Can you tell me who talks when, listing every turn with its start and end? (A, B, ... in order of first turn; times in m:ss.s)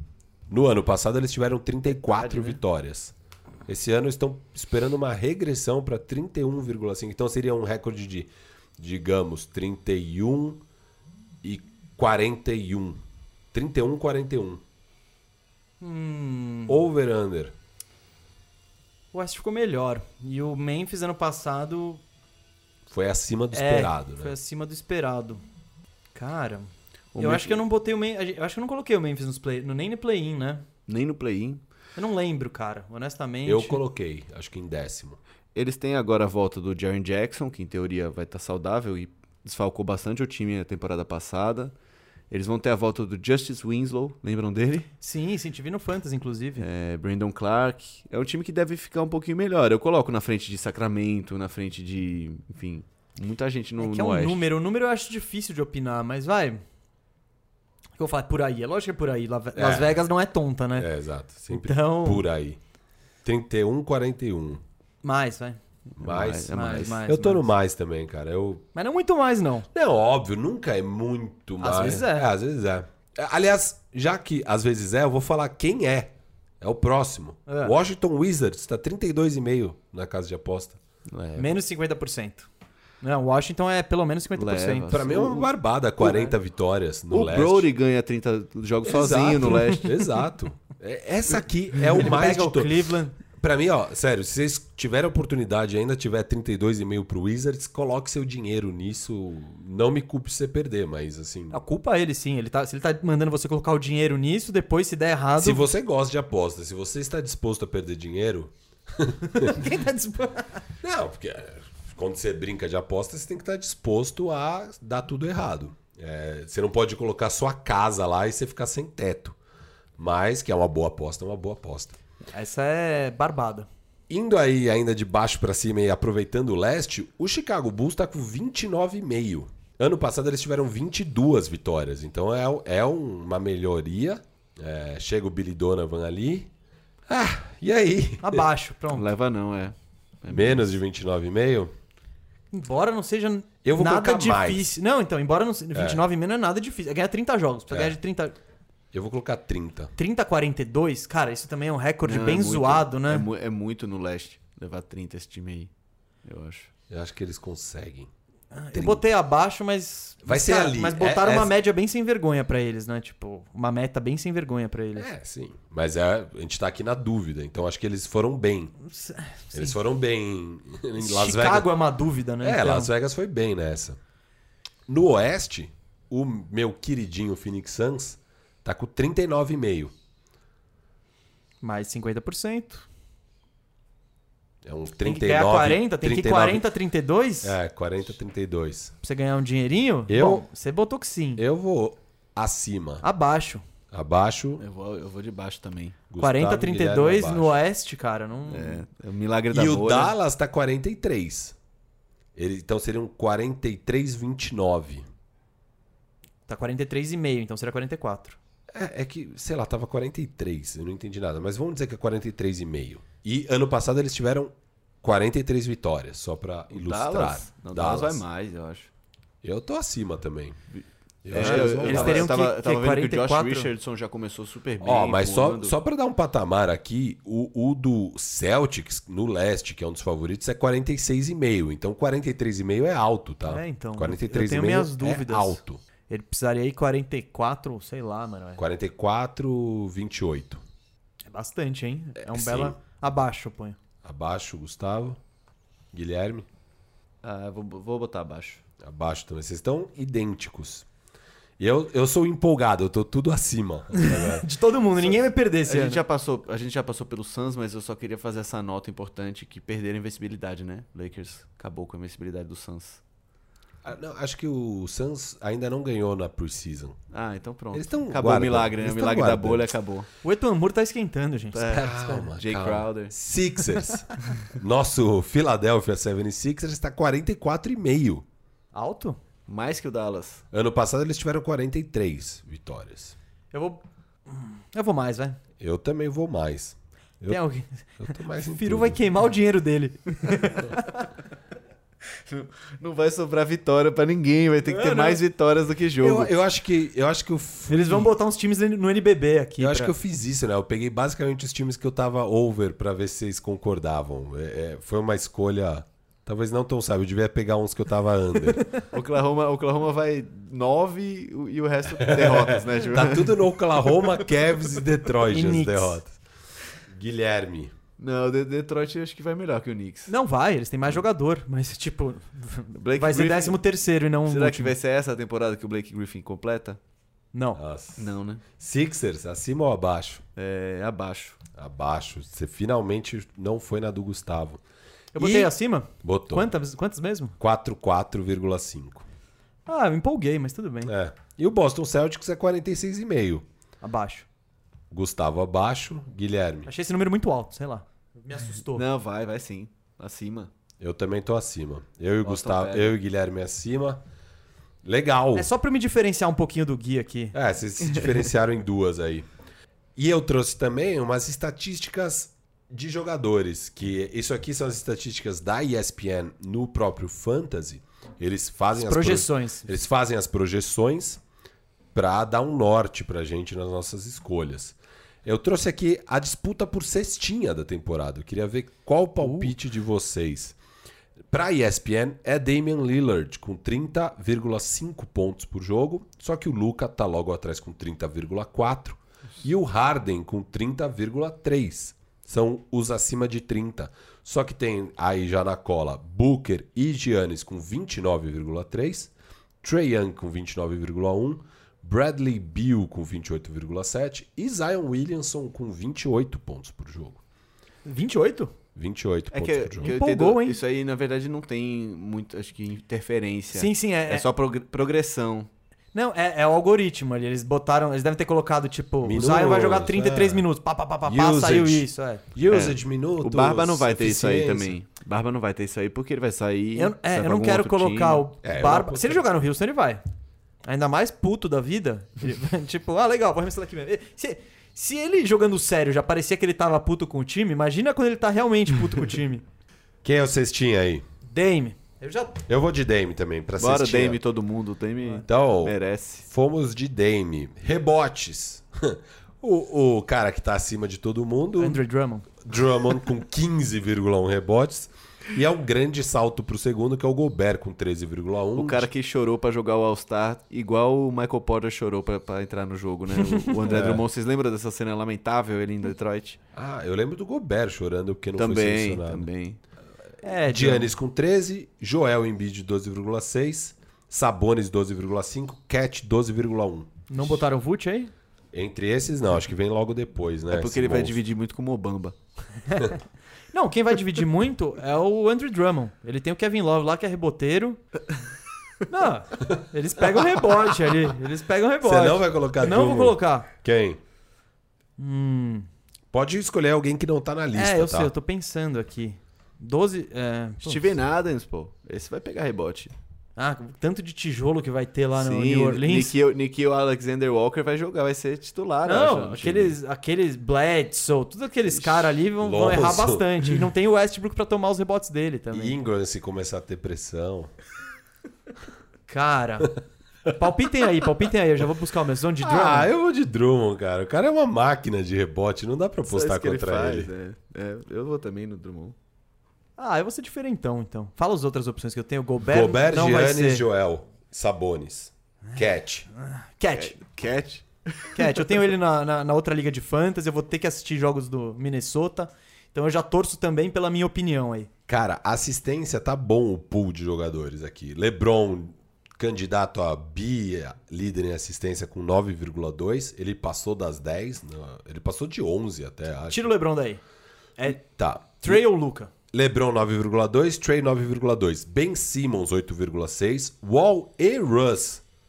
0:00.5-0:03.1 A
0:02.0-0:02.6 B
0:03.7-0:10.6 A
0:11.4-0:13.0 A
0:13.5-0:14.6 A
0:15.8-0:16.8 C
0:16.7-0:17.5 A
0:19.1-0:22.0 C
0:22.9-0:24.3 A
0:23.5-0:25.4 C
0:26.1-0:30.6 C
0:27.1-0:27.6 B
0:30.9-0:31.6 B
0:32.0-0:33.8 C
0:33.4-0:35.2 A
0:35.5-0:41.7 B
0:42.3-0:44.9 B
0:45.0-0:46.6 C
0:46.6-0:54.4 B
0:53.8-0:56.6 C
0:58.0-1:00.9 C
0:59.5-1:00.0 A
1:00.7-1:02.6 A
1:01.5-1:02.2 C
1:03.2-1:04.6 A
1:05.0-1:05.6 C
1:06.0-1:07.0 B
1:06.0-1:08.6 A
1:06.5-1:07.5 C
1:08.7-1:09.7 C
1:09.7-1:20.8 A
1:11.6-1:12.3 C
1:17.5-1:17.7 C
1:21.1-1:21.5 B
1:21.4-1:22.5 C
1:23.0-1:24.9 C
1:24.4-1:26.3 B
1:24.9-1:27.7 A
1:27.1-1:30.0 B
1:28.8-1:32.7 A
1:31.9-1:33.2 C
1:33.4-1:41.6 A
1:41.5-1:45.6 C
1:45.4-1:49.6 A
1:49.3-1:50.6 C
1:50.8-1:59.4 A
2:00.0-2:02.0 A
2:02.3-2:03.7 C
2:04.1-2:16.5 A
2:17.1-2:18.4 A
2:18.2-2:19.1 C
2:18.9-2:20.6 B
2:20.3-2:21.7 A
2:22.5-2:28.4 C
2:23.6-2:24.7 A
2:25.7-2:26.0 A
2:27.7-2:28.0 A
2:28.9-2:29.9 A
2:30.0-2:33.2 C
2:32.0-2:35.7 B
2:36.2-2:36.7 B
2:36.9-2:38.1 A
2:38.5-2:45.1 C
2:38.7-2:39.0 A
2:40.2-2:41.5 A
2:45.0-2:48.7 A
2:48.8-2:49.7 C
2:49.5-2:51.7 A
2:51.0-2:52.9 C
2:52.4-2:54.0 A
2:54.9-2:59.9 A
3:01.6-3:02.9 C
3:04.6-3:06.6 A
3:05.0-3:07.6 C
3:07.4-3:08.9 A
3:09.0-3:11.4 C
3:10.1-3:10.4 A
3:11.4-3:13.0 A
3:13.0-3:13.6 C
3:13.9-3:14.6 A
3:14.6-3:16.0 B
3:16.1-3:17.5 A
3:16.2-3:18.8 C
3:18.5-3:20.1 B
3:19.5-3:21.6 A
3:22.4-3:25.1 A
3:26.5-3:28.4 C
3:28.7-3:38.2 A
3:36.7-3:38.9 B
3:39.4-3:40.6 A
3:40.8-3:45.8 B
3:41.2-3:42.3 A
3:41.3-3:43.7 C
3:44.8-3:55.8 A
3:53.4-3:58.6 C
3:58.6-4:00.6 A
4:01.3-4:03.8 C
4:02.2-4:02.8 A
4:04.0-4:05.2 A
4:05.9-4:06.5 A
4:07.2-4:08.6 B
4:08.8-4:10.9 A
4:11.6-4:14.5 A
4:13.9-4:16.0 C
4:15.6-4:23.0 B
4:23.8-4:27.0 A
4:27.1-4:30.1 B
4:27.7-4:29.7 A
4:30.2-4:32.2 C
4:31.5-4:33.1 B
4:31.7-4:38.2 A
4:38.7-4:39.2 C
4:39.5-4:40.4 B
4:40.5-4:43.2 A
4:43.5-4:45.4 C
4:45.6-4:47.4 A
4:47.3-4:51.1 C
4:48.0-4:49.0 A
4:52.2-4:56.3 B
4:54.7-4:55.2 C
4:56.0-4:58.1 A
4:57.7-4:59.9 C
4:59.6-5:08.7 A
5:08.9-5:13.5 B
5:12.0-5:16.2 A
5:15.3-5:16.0 C
5:16.9-5:17.7 A
5:18.0-5:20.1 B
5:20.1-5:24.7 C
5:22.7-5:23.6 B
5:24.2-5:26.8 B
5:27.3-5:27.6 C
5:27.5-5:30.2 A
5:28.0-5:28.4 B
5:30.4-5:31.4 B
5:31.6-5:34.6 A
5:35.1-5:37.3 C
5:35.1-5:36.5 A
5:37.4-5:39.0 A
5:39.7-5:40.9 C
5:40.8-5:43.4 A
5:43.8-5:44.2 C
5:44.9-5:46.7 A
5:46.6-5:48.8 C
5:48.7-5:50.5 B
5:50.8-5:54.0 A
5:52.2-5:53.0 B
5:54.8-5:55.5 A
5:55.3-5:57.3 C
5:57.3-5:59.3 A
6:00.0-6:11.2 A
6:08.7-6:09.7 C
6:11.9-6:20.6 A
6:19.2-6:19.5 C
6:21.3-6:47.2 A
6:47.8-6:48.5 C
6:48.7-6:49.9 A
6:49.3-6:55.5 B
6:49.8-6:50.6 C
6:53.5-6:54.3 C
6:55.9-7:02.2 C
6:59.0-7:00.5 A
7:01.0-7:04.7 A
7:02.4-7:08.2 B
7:06.8-7:10.0 C
7:08.4-7:09.2 A
7:10.6-7:19.4 C
7:20.0-7:21.0 A
7:21.3-7:22.4 C
7:22.5-7:24.2 A
7:23.6-7:26.2 B
7:25.2-7:31.8 A
7:31.6-7:32.3 C
7:32.4-7:38.9 A
7:38.5-7:46.4 B
7:43.6-7:44.0 A
7:46.5-7:49.3 A
7:48.4-7:49.6 B
7:50.2-7:50.9 C
7:50.4-7:57.4 A
7:57.1-7:58.1 C
7:58.5-8:01.2 A
8:00.5-8:02.1 B
8:02.7-8:03.0 C
8:03.5-8:07.8 C
8:08.9-8:13.5 C
8:11.8-8:14.0 A
8:15.0-8:15.7 C
8:16.1-8:18.1 A
8:17.5-8:20.8 C
8:20.6-8:22.9 B
8:23.4-8:26.1 C
8:25.2-8:29.8 B
8:28.8-8:35.8 C
8:32.4-8:33.3 A
8:35.5-8:37.5 A
8:39.1-8:42.9 C
8:42.4-8:47.1 A
8:46.1-8:48.9 B
8:49.8-8:53.6 C
8:52.4-8:56.1 A
8:56.2-8:57.0 C
8:56.7-8:58.4 B
8:58.1-9:04.7 C
9:04.9-9:16.4 A
9:16.3-9:17.0 C
9:17.6-9:17.8 C
9:17.7-9:18.6 A
9:18.4-9:19.1 C
9:19.3-9:25.0 A